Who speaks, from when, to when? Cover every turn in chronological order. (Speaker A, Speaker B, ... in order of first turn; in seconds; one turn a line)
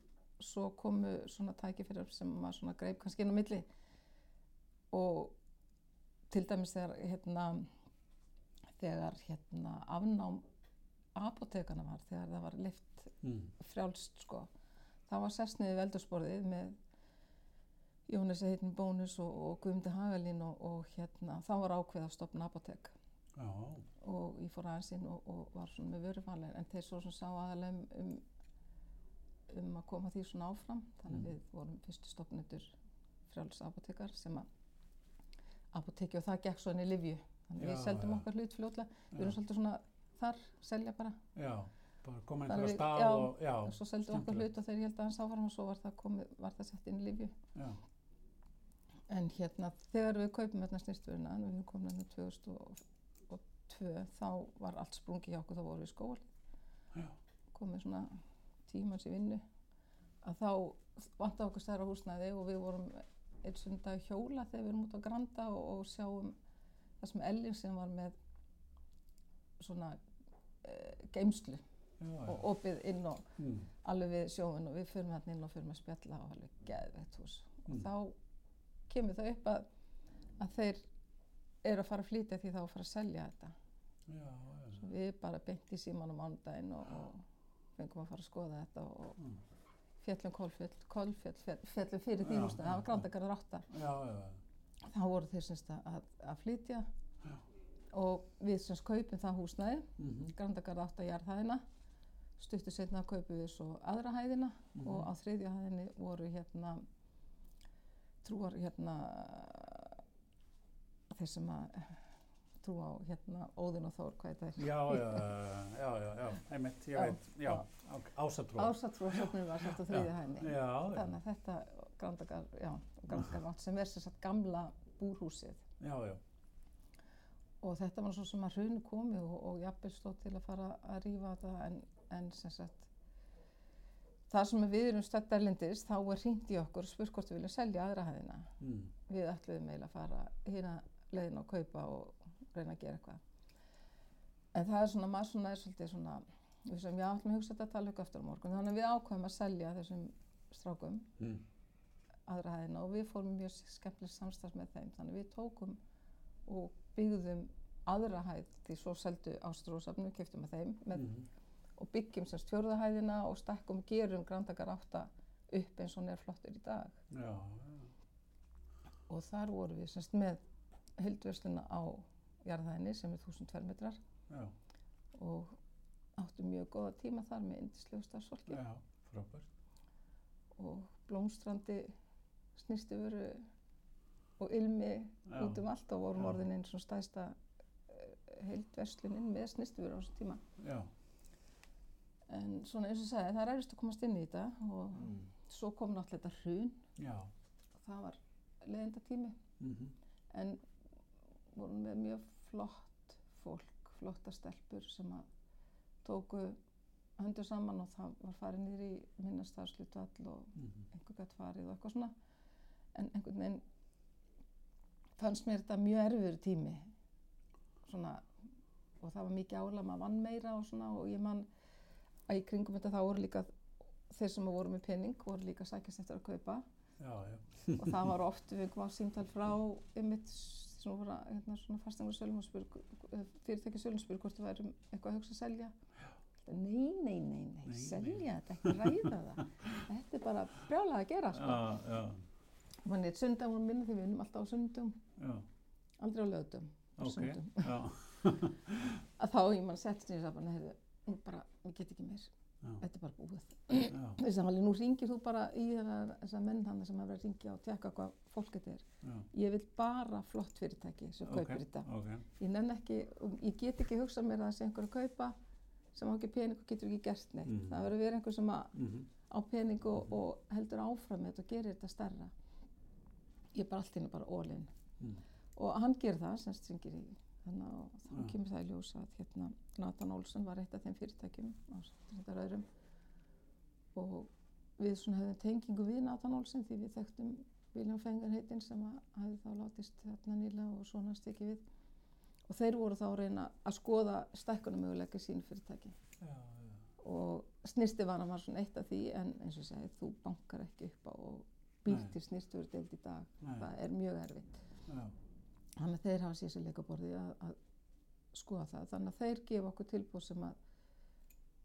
Speaker A: 0.4-3.6
Speaker A: 4.9-5.3
Speaker A: 6.3-7.7
Speaker A: 8.8-10.4
Speaker A: 11.1-14.5
Speaker B: 13.2-13.5
Speaker A: 15.1-16.7
Speaker A: 18.1-22.9
Speaker B: 23.4-23.9
Speaker A: 24.0-28.2
Speaker A: 29.5-32.7
Speaker A: 33.3-34.5
Speaker A: 35.7-41.2
Speaker B: 37.6-38.2
Speaker B: 41.3-44.5
Speaker A: 42.5-47.3
Speaker A: 49.1-56.3
Speaker A: 57.5-59.4
Speaker A: 60.2-66.3
Speaker A: 67.0-68.1
Speaker A: 69.6-70.0
Speaker A: 70.6-71.6
Speaker B: 72.0-72.4
Speaker A: 72.2-73.3
Speaker B: 73.4-73.7
Speaker A: 73.8-78.1
Speaker A: 78.9-79.7
Speaker A: 80.4-80.8
Speaker A: 81.6-83.5
Speaker B: 84.1-84.8
Speaker A: 84.7-87.2
Speaker A: 87.8-89.2
Speaker A: 90.0-93.7
Speaker B: 92.2-93.0
Speaker B: 93.7-94.4
Speaker A: 94.8-96.9
Speaker A: 97.9-101.6
Speaker B: 100.0-100.3
Speaker A: 102.4-106.8
Speaker B: 104.8-105.1
Speaker A: 108.2-110.0
Speaker A: 111.1-112.0
Speaker A: 112.6-115.3
Speaker B: 114.6-121.1
Speaker A: 116.9-117.7
Speaker A: 118.5-125.6
Speaker B: 125.8-126.2
Speaker A: 127.6-132.9
Speaker A: 134.3-138.5
Speaker B: 138.6-138.9
Speaker A: 139.1-143.2
Speaker A: 144.5-151.1
Speaker A: 152.3-155.8
Speaker A: 156.4-161.2
Speaker B: 160.9-161.3
Speaker A: 161.8-167.0
Speaker B: 167.1-167.9
Speaker A: 169.1-170.4
Speaker A: 171.0-174.0
Speaker B: 174.3-174.5
Speaker A: 175.1-175.6
Speaker A: 176.2-178.6
Speaker B: 178.5-179.5
Speaker A: 180.5-181.9
Speaker A: 182.6-183.5
Speaker A: 184.4-187.3
Speaker B: 185.3-185.6
Speaker B: 186.2-186.4
Speaker A: 187.9-190.4
Speaker B: 190.6-190.9
Speaker A: 192.3-196.9
Speaker B: 194.9-195.3
Speaker B: 196.9-197.3
Speaker A: 197.8-199.4
Speaker B: 199.6-199.9
Speaker A: 200.3-200.6
Speaker A: 201.5-205.3
Speaker A: 206.0-206.6
Speaker A: 207.2-212.1
Speaker A: 212.9-213.6
Speaker A: 215.2-216.9
Speaker A: 217.8-218.3
Speaker A: 219.0-221.5
Speaker A: 222.3-223.5
Speaker A: 224.1-226.6
Speaker B: 227.0-228.1
Speaker A: 227.8-235.7
Speaker A: 236.4-241.7
Speaker B: 237.7-239.7
Speaker B: 241.3-242.2
Speaker A: 242.8-245.0
Speaker B: 245.2-245.4
Speaker A: 246.0-247.8
Speaker B: 247.0-249.0
Speaker A: 249.2-265.3
Speaker B: 253.9-254.2
Speaker B: 259.0-259.3
Speaker B: 261.2-262.2
Speaker A: 265.9-268.8
Speaker B: 267.4-267.9
Speaker B: 268.7-269.1
Speaker A: 269.3-272.3
Speaker A: 273.5-274.7
Speaker A: 275.6-282.6
Speaker A: 283.9-291.6
Speaker A: 292.5-295.9
Speaker B: 296.2-296.8
Speaker A: 297.0-304.6
Speaker B: 301.9-302.1
Speaker B: 303.4-303.7
Speaker B: 304.9-305.1
Speaker A: 305.8-307.6
Speaker A: 308.3-310.6